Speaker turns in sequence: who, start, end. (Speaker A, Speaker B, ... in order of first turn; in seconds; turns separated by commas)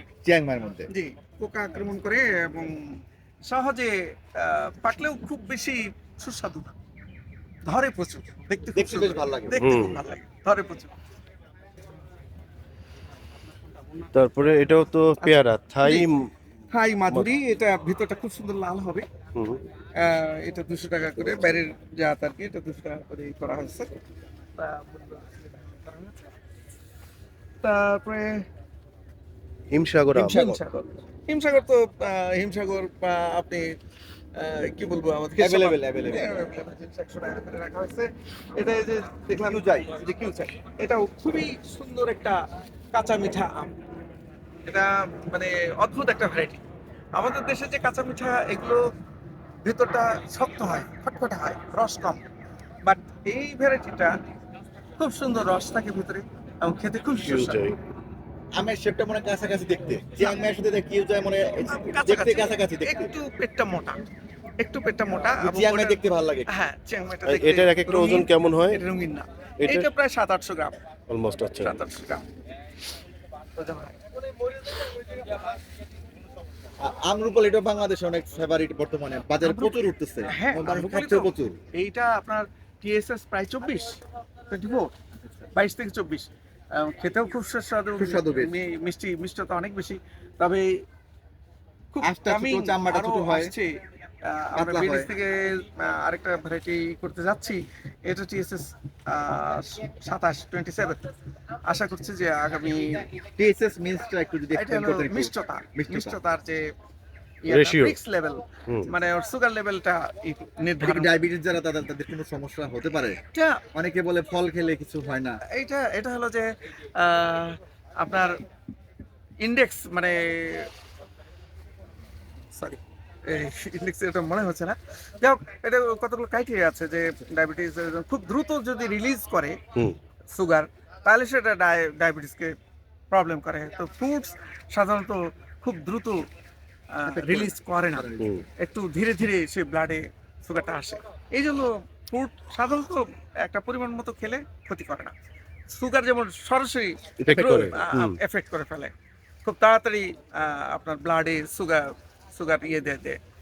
Speaker A: 0.2-0.9, Speaker B: 0.9-6.8, Speaker B: 7.7-10.9, Speaker A: 8.8-9.8, Speaker C: 9.6-10.0, Speaker C: 14.1-16.3, Speaker B: 15.2-16.1, Speaker B: 16.7-19.1, Speaker C: 19.4-19.6, Speaker B: 20.0-24.0, Speaker B: 24.6-26.1, Speaker B: 27.6-28.5, Speaker C: 29.7-30.6, Speaker B: 30.1-33.8, Speaker B: 34.4-43.8, Speaker A: 35.4-36.5, Speaker A: 39.3-39.9, Speaker B: 44.6-46.6, Speaker B: 47.1-48.9, Speaker B: 49.6-52.2, Speaker B: 52.8-54.1, Speaker B: 55.0-57.6, Speaker C: 57.2-57.8, Speaker A: 58.5-63.1, Speaker B: 61.6-64.0, Speaker B: 64.6-70.8, Speaker A: 65.4-66.5, Speaker C: 67.2-68.8, Speaker C: 69.6-69.9, Speaker C: 71.1-71.8, Speaker B: 71.6-72.2, Speaker B: 73.5-74.0, Speaker A: 76.8-81.6, Speaker B: 79.4-84.9, Speaker B: 85.5-90.8, Speaker A: 88.0-88.5, Speaker B: 91.9-101.1, Speaker A: 92.0-93.5, Speaker A: 94.5-95.1, Speaker B: 101.7-103.1, Speaker A: 103.4-106.2, Speaker B: 104.5-106.7, Speaker B: 107.5-111.1, Speaker C: 107.5-108.0, Speaker A: 110.8-115.4, Speaker B: 113.3-113.6, Speaker B: 115.5-118.4, Speaker B: 119.4-120.7, Speaker B: 122.5-129.6, Speaker B: 130.3-132.6, Speaker B: 133.1-136.2, Speaker B: 136.9-145.1, Speaker A: 137.1-138.3, Speaker C: 138.2-138.4, Speaker B: 145.7-148.9, Speaker C: 147.2-148.2, Speaker B: 149.4-153.2